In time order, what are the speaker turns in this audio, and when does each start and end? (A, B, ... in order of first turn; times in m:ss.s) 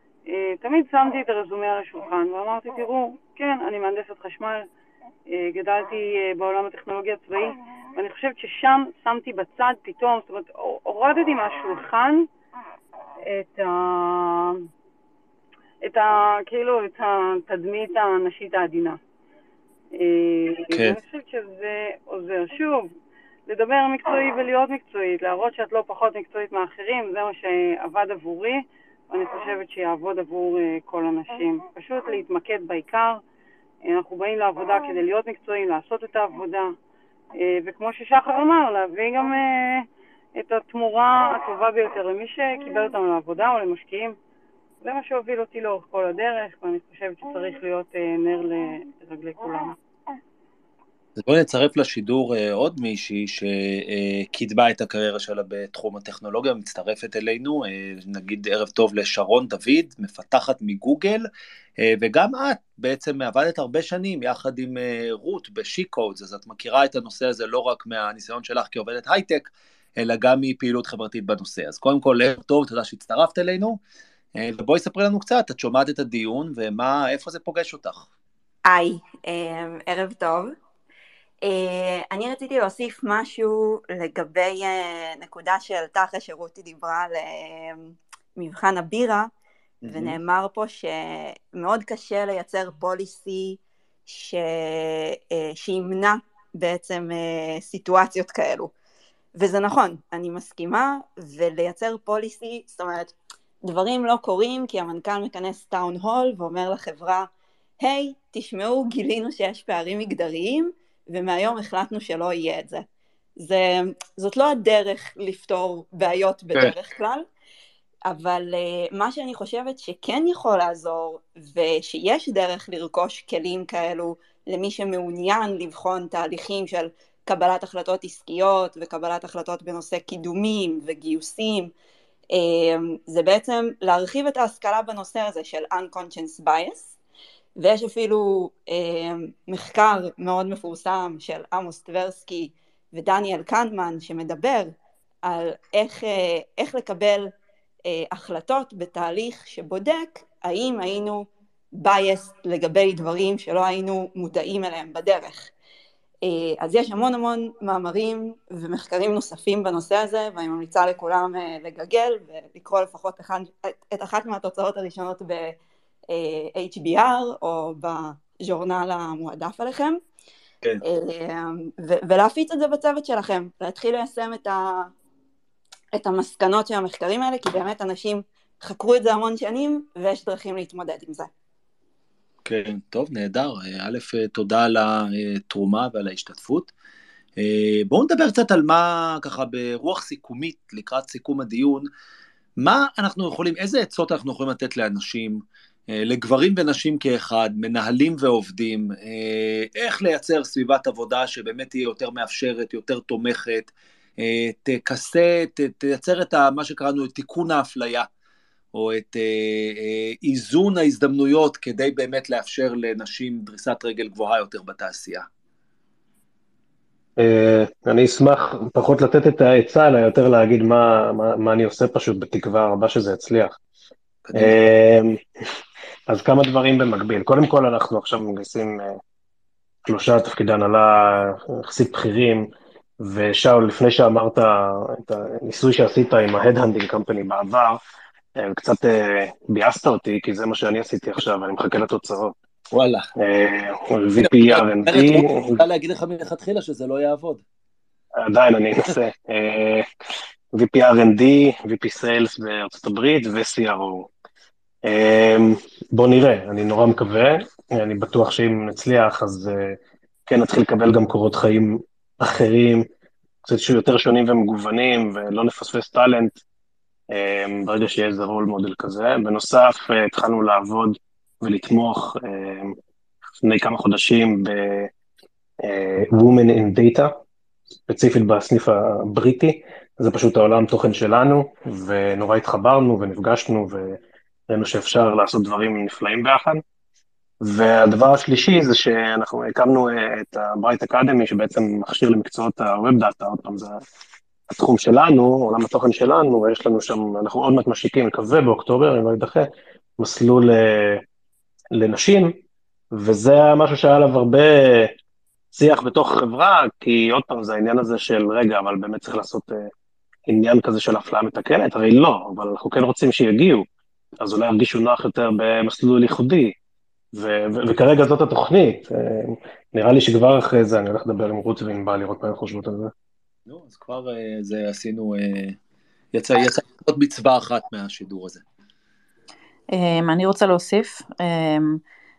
0:00.3-0:04.6 A
0:05.3-0:12.3 A
0:13.2-0:14.6 A
0:15.8-0:19.0 A
0:19.9-0:22.9 A
0:20.7-0:21.0 B
0:23.5-0:33.2 A
0:33.8-0:36.7 A
0:37.4-0:39.8 A
0:40.4-0:44.1 A
0:44.8-0:49.7 A
0:51.2-1:01.2 B
1:01.8-1:13.8 B
1:14.3-1:18.1 B
1:18.7-1:20.5 C
1:21.4-1:29.3 C
1:29.8-1:30.2 B
1:29.8-1:38.7 C
1:39.3-1:52.8 C
1:53.4-1:57.2 C
1:58.1-2:11.7 C
2:12.3-2:16.9 C
2:17.6-2:27.3 C
2:27.9-2:35.5 C
2:36.2-2:45.6 C
2:46.1-2:50.0 C
2:50.8-2:54.9 C
2:55.9-3:01.3 C
3:02.4-3:06.7 B
3:07.4-3:11.9 B
3:12.6-3:28.1 B
3:28.7-3:35.2 B
3:37.2-3:43.6 D
3:44.2-3:44.5 B
3:44.3-3:45.2 D
3:46.1-3:49.0 D
3:49.8-3:57.8 D
3:58.4-4:02.3 D
4:02.7-4:03.1 B
4:03.2-4:05.6 D
4:04.2-4:07.4 B
4:08.3-4:09.8 D
4:10.5-4:14.1 D
4:14.8-4:22.9 D
4:23.4-4:26.4 D
4:27.1-4:32.8 D
4:33.4-4:34.9 D
4:35.6-4:37.1 D
4:37.9-4:46.6 D
4:47.4-4:53.8 D
4:54.5-5:01.0 D
5:01.7-5:02.4 D
5:02.9-5:04.9 D
5:05.5-5:09.7 D
5:10.3-5:13.6 D
5:14.2-5:16.5 D
5:17.1-5:22.9 D
5:23.5-5:25.6 B
5:26.1-5:28.4 B
5:29.7-5:31.8 E